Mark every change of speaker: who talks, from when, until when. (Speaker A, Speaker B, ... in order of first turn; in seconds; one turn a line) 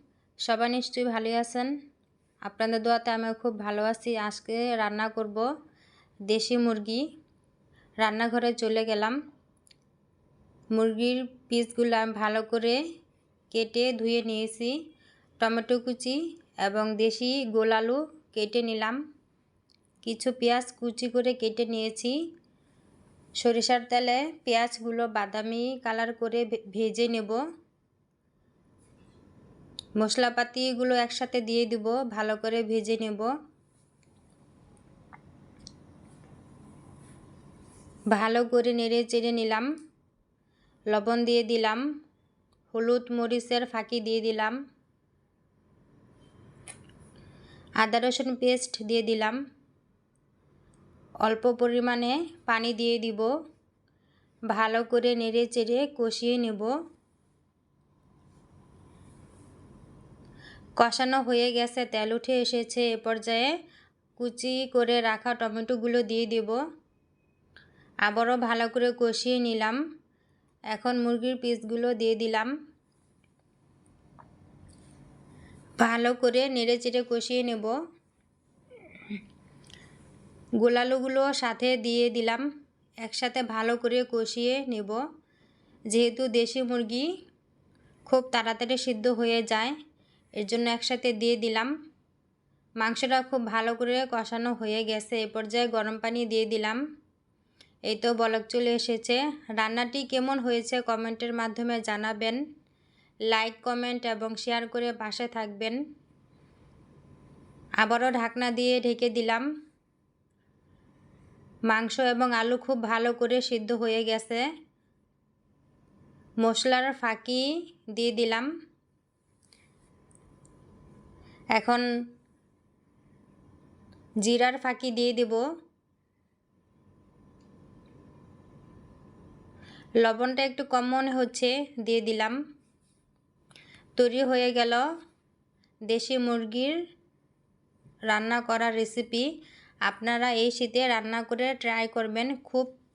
Speaker A: 0.5-1.7
Speaker A: 2.5-5.5
Speaker A: 6.3-7.0
Speaker A: 8.0-9.2
Speaker A: 10.8-12.8
Speaker A: 13.5-14.8
Speaker A: 15.4-19.0
Speaker A: 20.1-22.1
Speaker A: 23.4-27.4
Speaker A: 30.0-33.3
Speaker A: 38.1-39.7
Speaker A: 40.9-41.8
Speaker A: 42.7-44.6
Speaker A: 47.8-49.4
Speaker A: 51.2-53.3
Speaker A: 54.5-56.7
Speaker A: 60.8-63.5
Speaker A: 64.2-66.6
Speaker A: 68.0-69.8
Speaker A: 70.7-72.5
Speaker A: 75.8-77.8
Speaker A: 80.6-82.5
Speaker A: 83.0-85.0
Speaker A: 85.9-87.1
Speaker A: 88.1-89.8
Speaker A: 90.4-91.7
Speaker A: 92.8-96.8
Speaker A: 97.9-102.4
Speaker A: 103.3-105.8
Speaker A: 107.8-109.5
Speaker A: 111.7-114.5
Speaker A: 116.4-118.5
Speaker A: 121.5-121.8
Speaker A: 124.2-125.4
Speaker A: 130.0-132.4
Speaker A: 134.0-134.8
Speaker A: 135.9-136.8
Speaker A: 138.1-139.3
Speaker A: 139.9-142.7